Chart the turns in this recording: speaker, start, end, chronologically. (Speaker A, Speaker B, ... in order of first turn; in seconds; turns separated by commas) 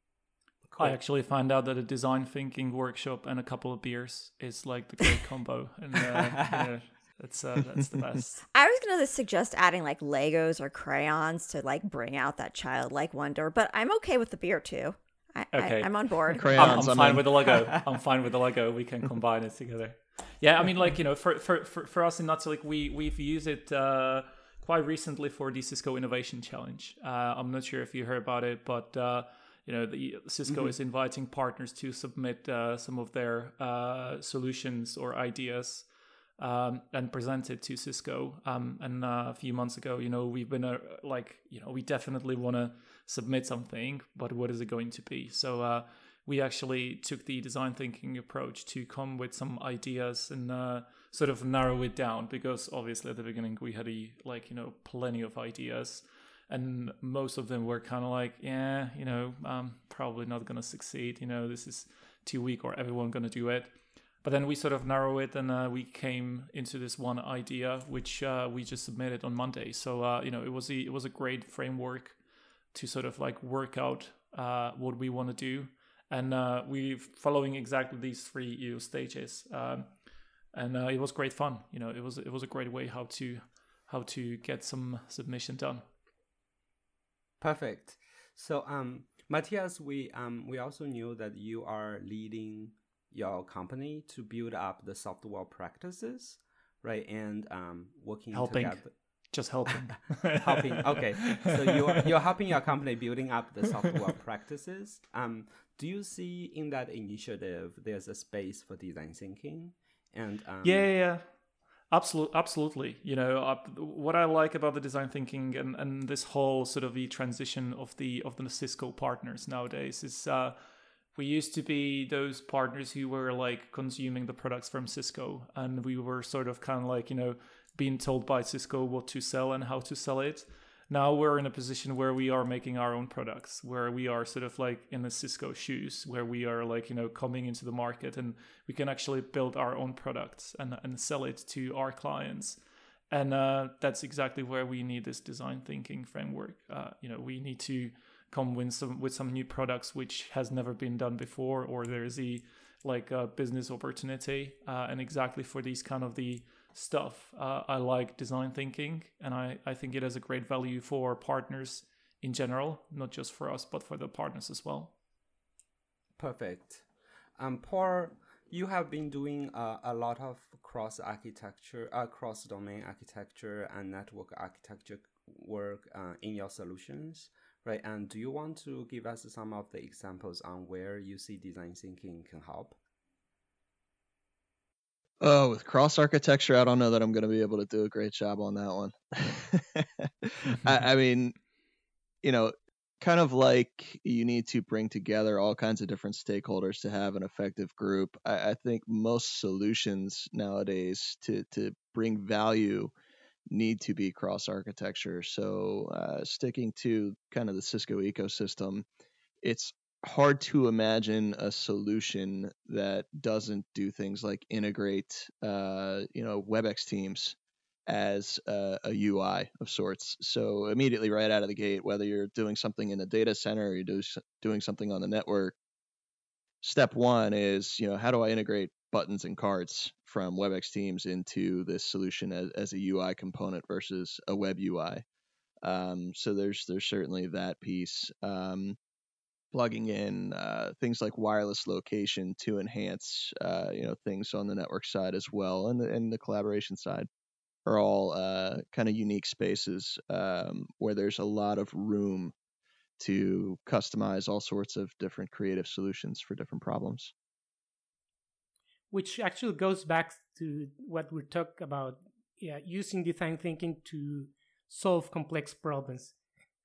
Speaker A: 0.7-1.0, Speaker B: 0.8-8.4, Speaker A: 6.1-6.7, Speaker C: 8.5-16.8, Speaker B: 15.5-72.2, Speaker D: 16.3-17.3, Speaker A: 30.4-30.7, Speaker B: 72.7-80.0, Speaker B: 80.5-85.8, Speaker A: 87.4-98.9, Speaker B: 98.3-101.3, Speaker A: 99.7-110.9, Speaker B: 110.6-164.9, Speaker A: 166.2-166.8, Speaker A: 167.4-182.8, Speaker D: 185.2-191.3, Speaker D: 192.2-202.9, Speaker D: 203.5-208.8, Speaker D: 209.4-217.3, Speaker D: 217.9-225.5, Speaker D: 226.6-235.0, Speaker D: 235.6-238.8, Speaker D: 239.5-247.1, Speaker D: 247.7-252.3, Speaker D: 253.0-257.1, Speaker E: 258.9-266.2